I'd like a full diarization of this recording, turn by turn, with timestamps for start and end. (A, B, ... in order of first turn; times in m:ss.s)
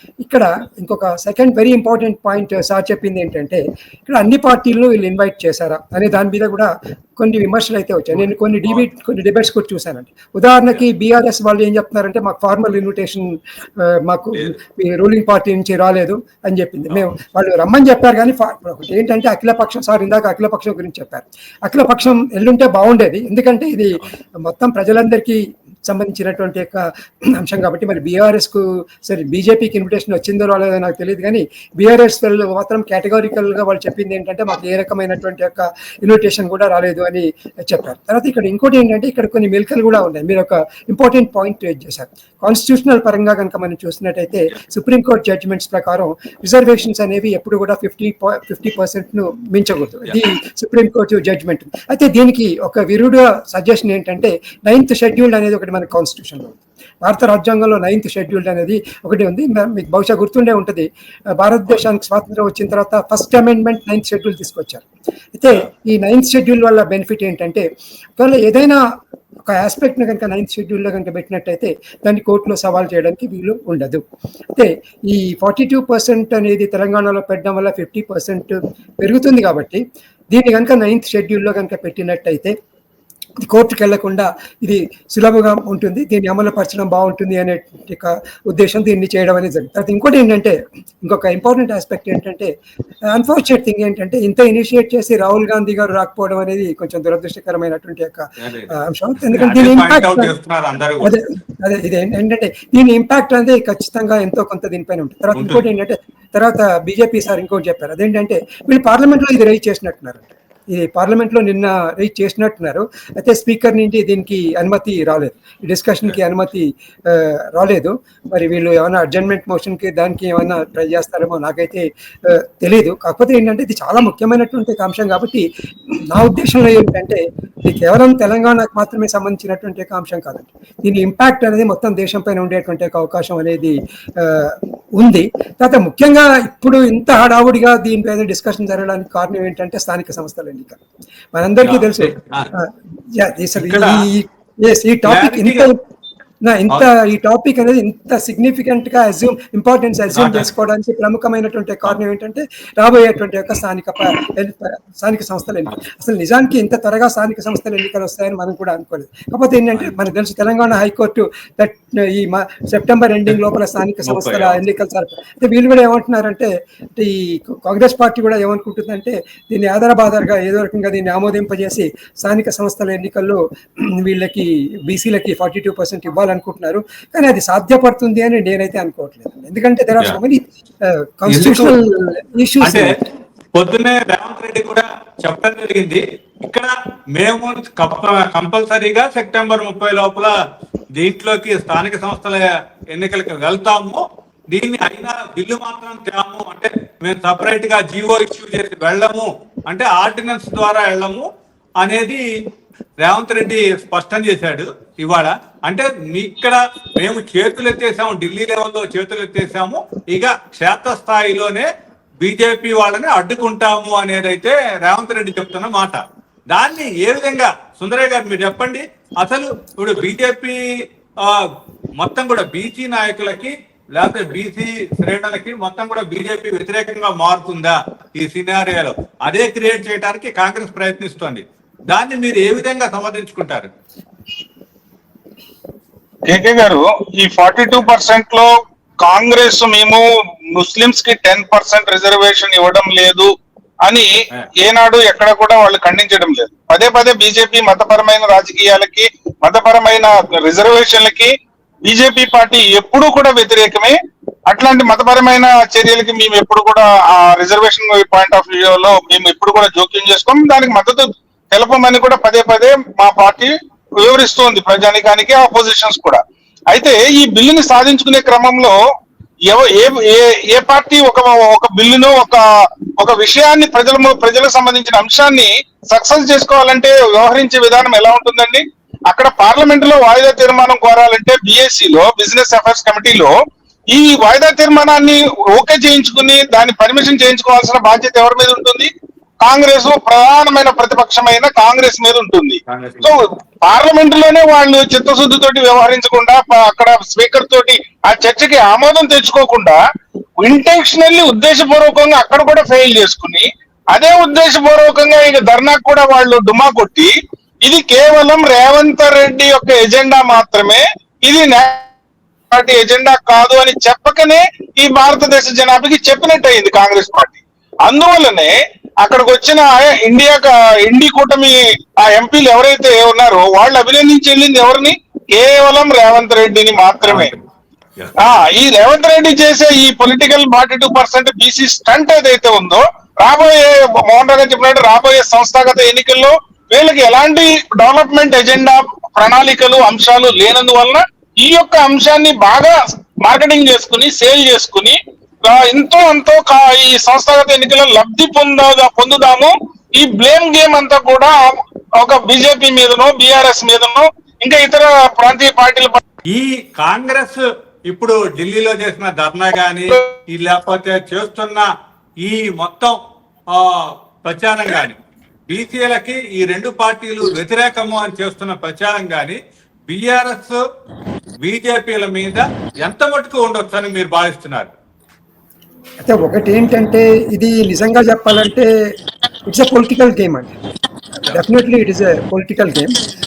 0:00.2-1:00.9 A
1:01.4-1:07.6 A
1:08.2-1:08.8 A
1:09.5-1:14.0 A
1:14.6-1:22.6 A
1:23.4-1:32.5 A
1:33.1-1:40.3 A
1:38.4-1:38.7 B
1:39.3-1:41.1 B
1:41.0-2:05.4 A
1:45.3-1:45.6 B
2:06.1-2:20.8 A
2:21.3-2:25.8 A
2:21.6-2:22.5 B
2:23.6-2:24.0 B
2:25.0-2:25.7 B
2:26.4-3:02.9 A
2:30.1-2:30.5 B
2:44.1-2:44.6 B
3:01.3-3:01.7 B
3:02.6-3:02.9 B
3:03.6-3:10.3 B
3:11.0-3:21.3 B
3:21.8-3:22.2 B
3:23.0-3:31.7 B
3:32.2-3:36.0 B
3:36.5-3:40.6 B
3:42.0-3:53.7 B
3:56.3-3:58.5 C
3:59.0-4:00.0 C
4:00.5-4:03.3 C
4:04.6-4:11.3 C
4:11.8-4:14.0 C
4:14.5-4:28.8 C
4:29.5-4:32.4 C
4:33.0-4:43.3 C
4:43.9-4:48.9 C
4:49.4-4:59.8 C
4:52.7-4:53.1 B
5:00.4-5:07.1 C
5:07.6-5:11.8 C
5:12.5-5:27.3 C
5:27.0-5:27.4 B
5:28.2-5:56.0 C
5:56.3-6:01.7 B
6:02.2-6:03.0 B
6:03.5-6:10.6 B
6:11.4-6:14.7 B
6:16.0-6:18.7 A
6:19.5-6:20.5 A
6:21.3-6:22.9 A